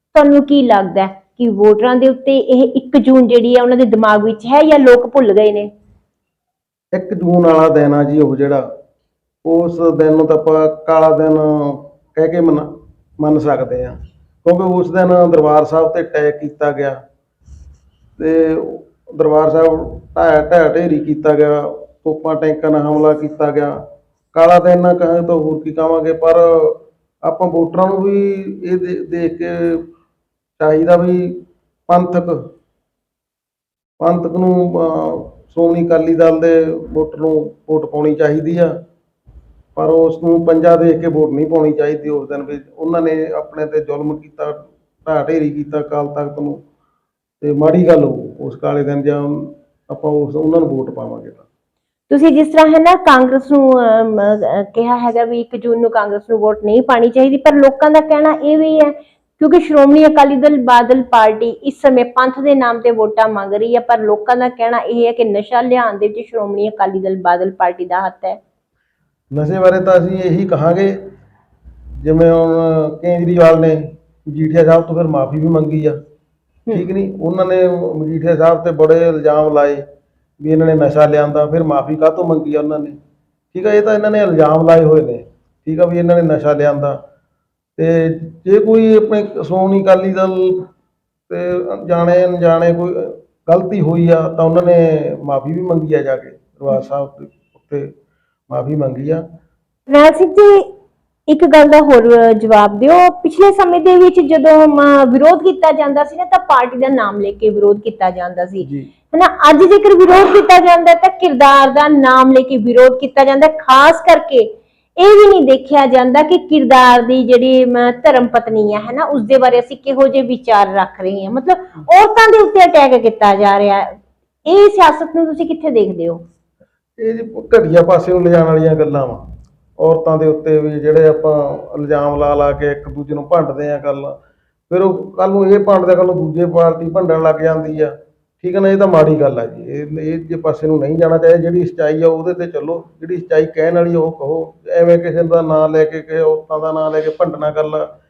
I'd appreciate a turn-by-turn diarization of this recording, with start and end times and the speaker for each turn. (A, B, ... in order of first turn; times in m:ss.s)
0:00.1-0:05.7 A
0:06.9-0:08.6 B
0:09.4-0:12.7 B
0:13.2-0:17.0 B
0:18.2-0:23.8 B
0:24.3-0:29.9 B
0:30.6-0:32.4 B
0:34.0-0:38.7 B
0:39.8-0:46.6 B
0:47.4-0:51.4 B
0:52.1-1:08.4 A
1:09.3-1:11.0 B
1:12.0-1:16.0 B
1:16.7-1:19.8 B
1:20.4-1:23.0 B
1:23.5-1:27.0 B
1:27.8-1:30.7 B
1:31.3-1:37.9 B
1:38.5-1:39.2 B
1:39.9-1:40.7 A
1:41.3-2:03.9 A
1:48.6-1:48.9 B
2:04.5-2:06.2 A
2:07.0-2:09.2 B
2:09.8-2:14.2 B
2:14.7-2:27.9 B